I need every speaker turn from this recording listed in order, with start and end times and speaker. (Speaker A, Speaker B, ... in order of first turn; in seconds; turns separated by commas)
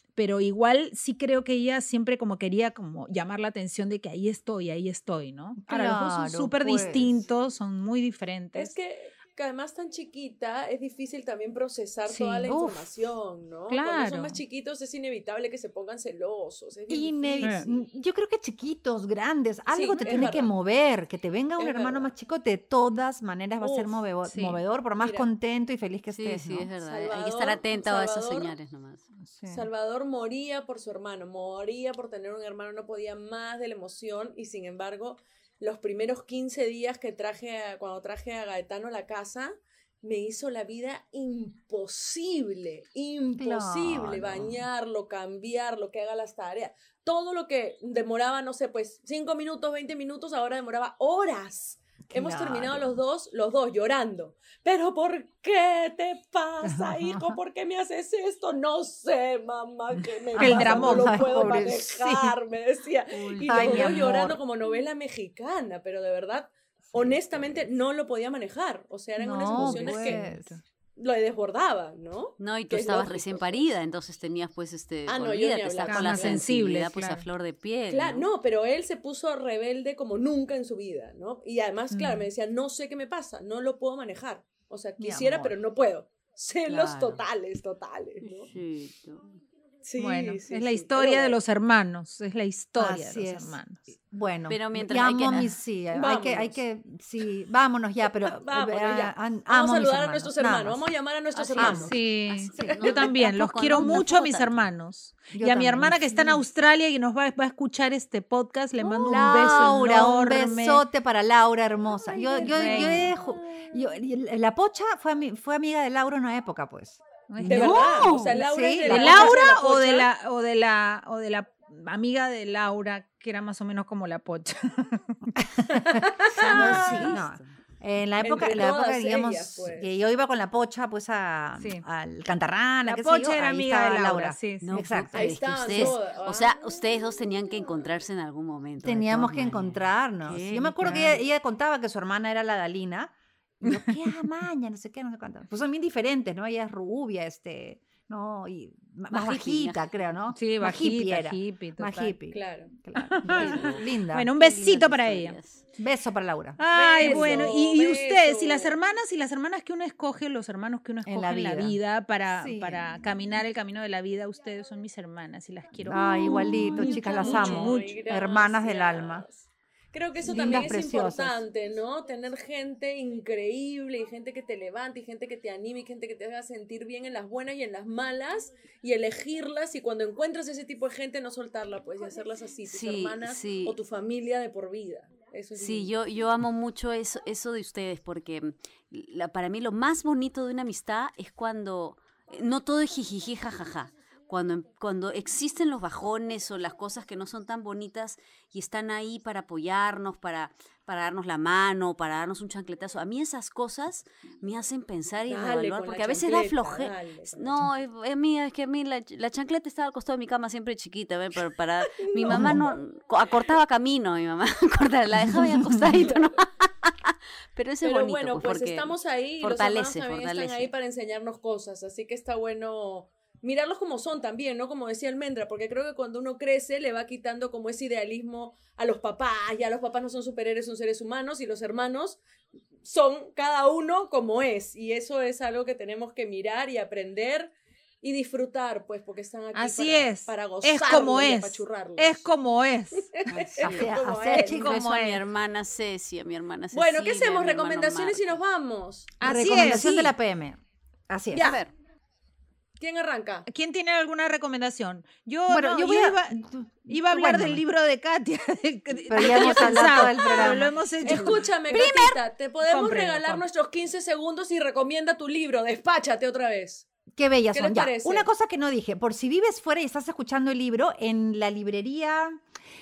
Speaker A: 0.2-8.7, Speaker B: 5.6-7.2, Speaker C: 8.5-17.8, Speaker A: 12.1-12.5, Speaker B: 12.5-12.8, Speaker A: 13.7-14.4, Speaker B: 16.9-26.7, Speaker A: 17.4-17.7, Speaker C: 19.7-20.5, Speaker A: 20.0-20.4, Speaker C: 21.6-22.1, Speaker C: 23.6-24.0, Speaker A: 24.2-24.6, Speaker C: 25.0-25.3, Speaker D: 26.1-29.1, Speaker C: 26.8-28.5, Speaker B: 29.2-29.7, Speaker C: 29.5-70.2, Speaker B: 43.3-44.7, Speaker B: 52.1-53.0, Speaker B: 56.6-57.4, Speaker B: 60.3-62.2, Speaker A: 60.4-62.3, Speaker D: 63.2-64.0, Speaker B: 63.4-64.4, Speaker B: 69.2-70.5, Speaker A: 69.5-70.6, Speaker C: 71.0-73.7, Speaker D: 72.4-78.3, Speaker C: 75.1-76.5, Speaker A: 75.9-77.2, Speaker C: 77.9-88.5, Speaker A: 82.0-82.2, Speaker B: 85.0-85.5, Speaker D: 86.7-87.2, Speaker D: 88.2-89.3, Speaker C: 89.8-91.4, Speaker B: 90.0-90.4, Speaker A: 90.5-93.8, Speaker B: 92.8-100.8, Speaker D: 94.5-95.6, Speaker C: 95.9-96.6, Speaker C: 98.1-102.0, Speaker D: 101.3-104.6, Speaker B: 101.6-101.9, Speaker A: 101.8-110.8, Speaker B: 102.6-103.0, Speaker B: 105.3-106.5, Speaker B: 108.8-119.4, Speaker C: 108.9-109.3, Speaker C: 111.9-113.9, Speaker A: 112.5-113.1, Speaker A: 117.3-118.2, Speaker C: 117.4-120.1, Speaker D: 117.5-118.4, Speaker A: 118.8-125.3, Speaker B: 125.4-136.0, Speaker C: 125.7-126.9, Speaker D: 126.3-127.5, Speaker A: 126.6-127.1, Speaker C: 128.2-129.9, Speaker A: 131.6-131.8, Speaker A: 132.9-134.7, Speaker D: 134.6-141.2, Speaker C: 135.1-136.9, Speaker B: 138.8-154.3, Speaker A: 140.8-141.2, Speaker A: 143.7-144.3, Speaker D: 149.1-150.0, Speaker A: 150.3-152.2, Speaker C: 152.3-152.7, Speaker A: 152.9-155.4, Speaker D: 153.3-155.7, Speaker B: 155.8-157.6, Speaker A: 156.6-167.9, Speaker C: 156.7-158.7, Speaker B: 161.1-161.8, Speaker B: 162.3-162.8, Speaker B: 165.8-169.3, Speaker C: 166.2-185.9, Speaker B: 170.2-171.4, Speaker D: 182.7-183.8, Speaker D: 185.6-220.7, Speaker C: 205.3-207.6, Speaker C: 211.9-212.8, Speaker B: 212.3-212.6, Speaker C: 215.9-216.3, Speaker C: 217.8-232.2, Speaker C: 232.8-242.3, Speaker A: 239.5-243.1, Speaker C: 243.0-244.7, Speaker D: 243.3-248.4, Speaker B: 243.6-244.8, Speaker A: 244.3-245.2, Speaker C: 246.7-249.5, Speaker A: 249.2-250.1, Speaker B: 249.2-251.6, Speaker C: 251.3-251.6, Speaker D: 251.3-251.7, Speaker C: 252.8-253.5, Speaker A: 253.5-261.4, Speaker B: 255.5-257.6, Speaker B: 259.1-260.9, Speaker C: 259.4-266.9, Speaker D: 261.7-262.2, Speaker A: 262.7-263.4, Speaker B: 267.1-272.4, Speaker C: 267.5-268.3